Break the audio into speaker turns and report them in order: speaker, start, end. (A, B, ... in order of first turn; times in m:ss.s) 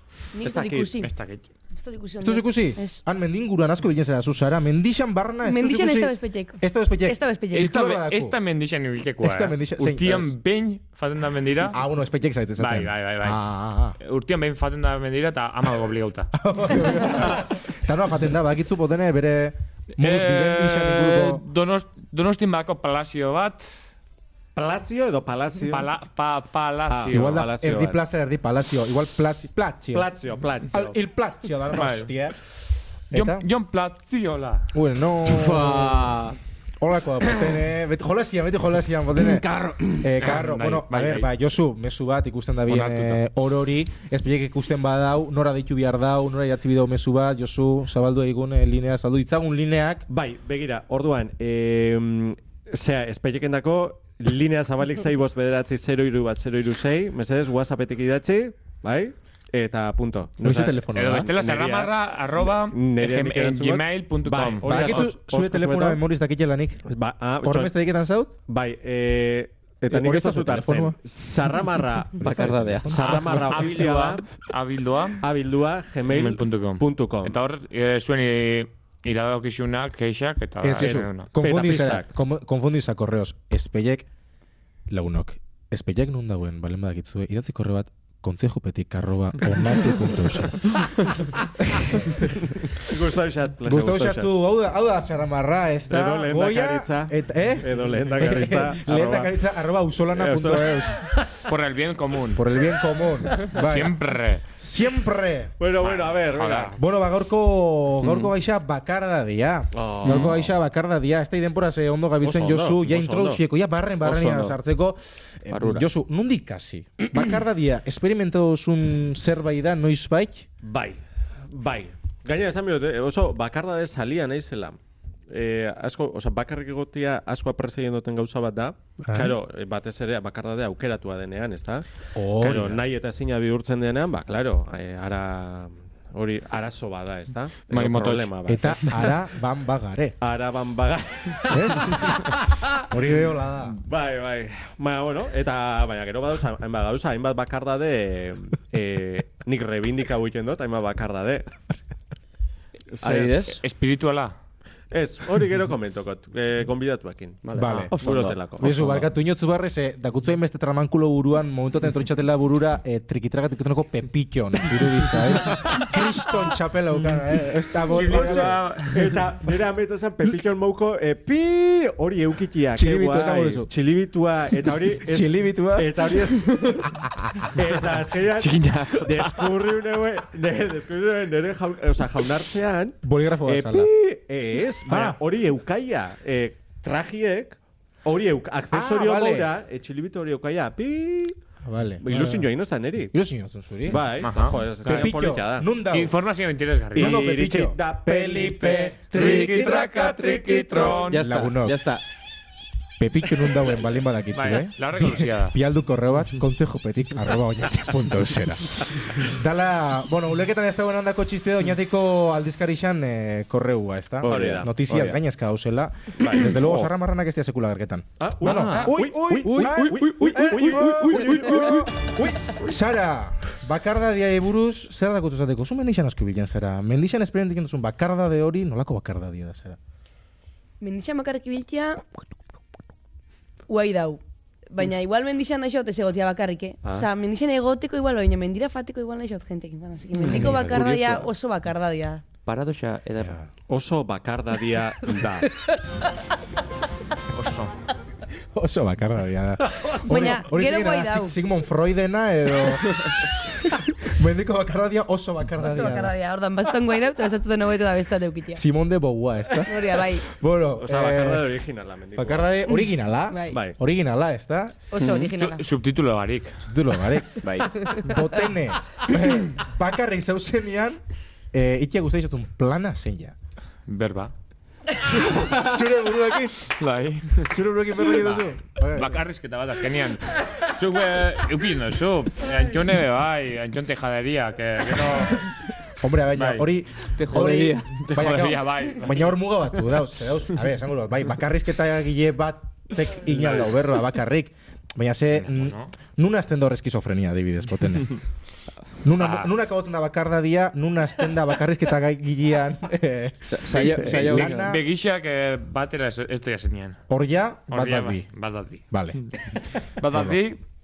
0:00.3-0:01.1 A
0:00.4-0:00.9 B
0:01.0-0:01.5 C
0:01.7-0:03.0 A
0:02.2-0:08.4 D
0:05.4-0:07.7 A
0:07.5-0:11.8 C
0:09.2-0:10.3 D
0:11.7-0:14.0 D
0:12.6-0:13.4 C
0:14.0-0:16.3 C
0:16.3-0:21.4 D
0:16.9-0:17.5 C
0:20.0-0:23.6 C
0:24.5-0:25.9 B
0:25.7-0:27.4 C
0:26.9-0:28.0 B
0:27.1-0:30.1 D
0:29.9-0:31.0 B
0:30.7-0:32.4 D
0:31.7-0:32.1 C
0:33.1-0:33.5 D
0:33.1-0:34.7 C
0:34.7-0:36.1 D
0:35.2-0:36.4 E
0:36.8-0:50.0 D
0:39.1-0:40.1 E
0:40.2-0:41.3 C
0:42.7-0:43.2 C
0:50.1-1:01.9 B
1:00.4-1:01.3 D
1:00.9-1:05.1 C
1:02.6-1:06.0 B
1:04.6-1:08.3 D
1:06.9-1:07.8 B
1:08.4-1:12.3 B
1:09.9-1:11.0 D
1:12.2-1:12.9 E
1:12.2-1:13.7 D
1:12.9-1:14.2 B
1:13.0-1:15.2 C
1:15.2-1:17.4 B
1:16.1-1:21.3 C
1:20.6-1:24.1 D
1:20.9-1:22.1 B
1:24.9-1:31.0 D
1:31.6-1:32.4 D
1:32.8-1:34.3 B
1:33.6-1:41.0 D
1:35.9-1:39.3 B
1:40.1-1:41.3 B
1:41.4-1:42.5 C
1:42.3-1:45.5 D
1:43.3-1:44.4 C
1:45.6-1:46.8 B
1:45.8-1:46.8 C
1:46.8-2:00.5 D
1:49.7-1:50.5 B
1:52.2-1:53.4 B
1:54.0-1:54.6 E
1:55.5-1:55.9 E
2:00.6-2:04.8 B
2:05.3-2:11.8 B
2:09.0-2:09.4 D
2:12.1-2:12.8 D
2:12.4-2:18.9 B
2:17.7-2:18.3 C
2:18.5-2:20.2 D
2:20.2-2:22.8 B
2:21.5-2:23.8 D
2:23.6-2:31.7 B
2:32.9-2:33.4 B
2:33.0-2:33.6 E
2:33.6-2:34.3 C
2:34.9-2:37.4 B
2:37.4-2:39.0 E
2:37.5-2:37.9 D
2:38.0-2:39.0 B
2:38.6-2:48.6 D
2:47.8-2:49.2 C
2:47.9-3:11.4 B
2:52.7-2:53.7 D
2:55.0-2:56.1 D
2:58.4-2:59.5 C
3:03.0-3:03.9 D
3:04.8-3:05.2 D
3:08.7-3:09.5 D
3:11.6-3:12.5 D
3:12.0-3:13.1 B
3:13.1-3:14.1 D
3:13.8-3:15.7 B
3:14.2-3:15.3 C
3:14.8-3:16.1 D
3:15.8-3:17.2 C
3:16.9-3:21.0 B
3:16.9-3:21.8 D
3:19.1-3:21.3 C
3:21.1-3:22.0 E
3:23.0-3:49.8 D
3:24.3-3:25.6 C
3:34.2-3:34.6 E
3:34.2-3:35.2 B
3:36.2-3:36.9 B
3:38.2-3:42.1 B
3:38.4-3:41.8 E
3:50.8-3:52.0 A
3:53.7-4:02.2 A
4:00.1-4:00.4 E
4:00.3-4:00.9 D
4:00.7-4:01.0 B
4:02.4-4:03.4 E
4:03.7-4:05.5 B
4:07.3-4:07.7 C
4:08.5-4:16.1 D
4:09.6-4:10.4 B
4:10.0-4:11.3 A
4:15.6-4:18.6 A
4:18.5-4:21.5 D
4:19.6-4:20.2 A
4:20.8-4:22.7 B
4:22.2-4:24.8 D
4:23.3-4:23.6 A
4:23.5-4:23.8 B
4:24.9-4:25.6 A
4:25.0-4:25.2 E
4:25.4-4:26.6 C
4:26.6-4:31.0 D
4:27.4-4:27.7 E
4:27.7-4:28.2 A
4:31.5-4:33.3 D
4:33.9-4:34.3 C
4:35.2-4:36.7 D
4:36.6-4:45.5 C
4:37.4-4:39.2 D
4:46.0-4:58.2 D
4:46.3-4:46.7 C
4:47.1-4:47.9 E
4:47.9-4:50.0 C
4:55.5-4:55.9 C
4:59.0-5:04.8 D
4:59.2-4:59.5 C
5:03.5-5:04.7 E
5:03.8-5:07.0 C
5:07.1-5:08.3 D
5:07.7-5:08.8 C
5:08.9-5:09.2 D
5:10.0-5:10.6 C
5:10.0-5:10.4 D